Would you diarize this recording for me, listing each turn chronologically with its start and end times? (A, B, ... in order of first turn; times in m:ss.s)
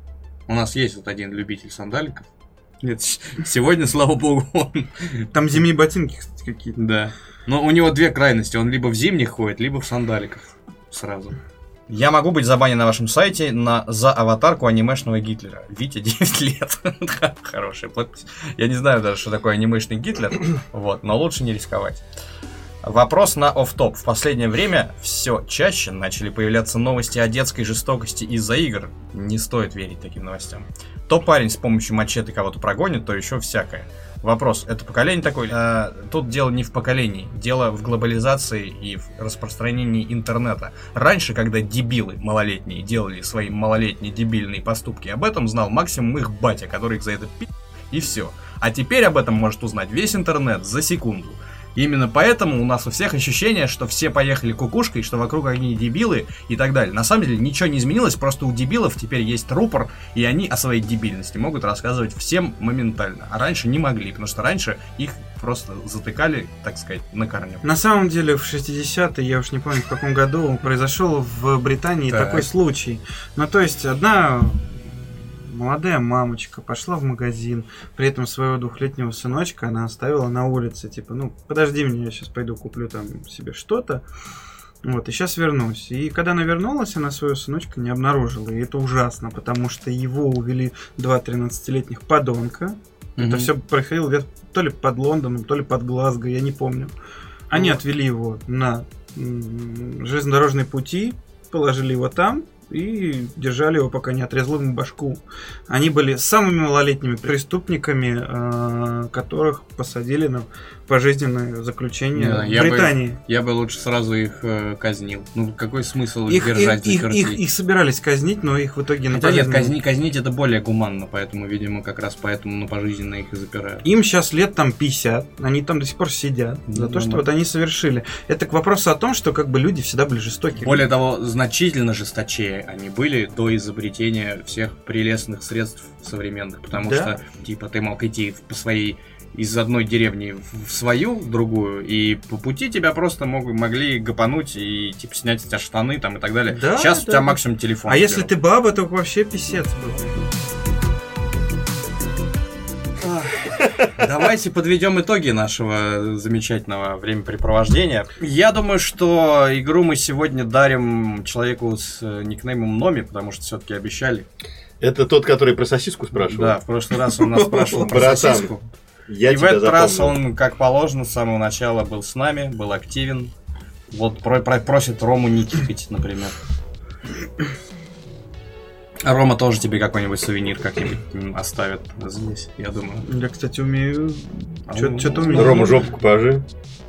0:00.5-0:02.3 A
0:02.8-0:05.3 A
0:05.3-0:06.8 B
0:06.8-0:11.4 A
0:11.9-0:22.0 A
0:22.8-1:07.6 A
1:07.6-1:24.0 B
1:12.1-1:12.5 A
1:24.8-1:36.9 B
1:33.2-1:33.5 A
1:37.5-1:53.2 B
1:52.2-1:57.4 A
1:56.3-1:59.8 B
1:59.1-2:03.8 A
2:03.8-2:10.9 B
2:06.7-2:07.2 A
2:10.6-2:28.3 A
2:16.8-2:17.1 B
2:26.5-2:30.2 B
2:33.0-2:44.3 A
2:44.8-2:46.6 C
2:46.1-2:48.7 A
2:47.6-2:48.2 B
2:47.8-2:48.5 C
2:49.1-2:50.2 C
2:49.2-2:53.3 A
2:53.9-2:56.4 A
2:59.0-3:03.1 A
3:03.0-3:05.8 B
3:04.7-3:05.8 A
3:05.3-3:06.4 C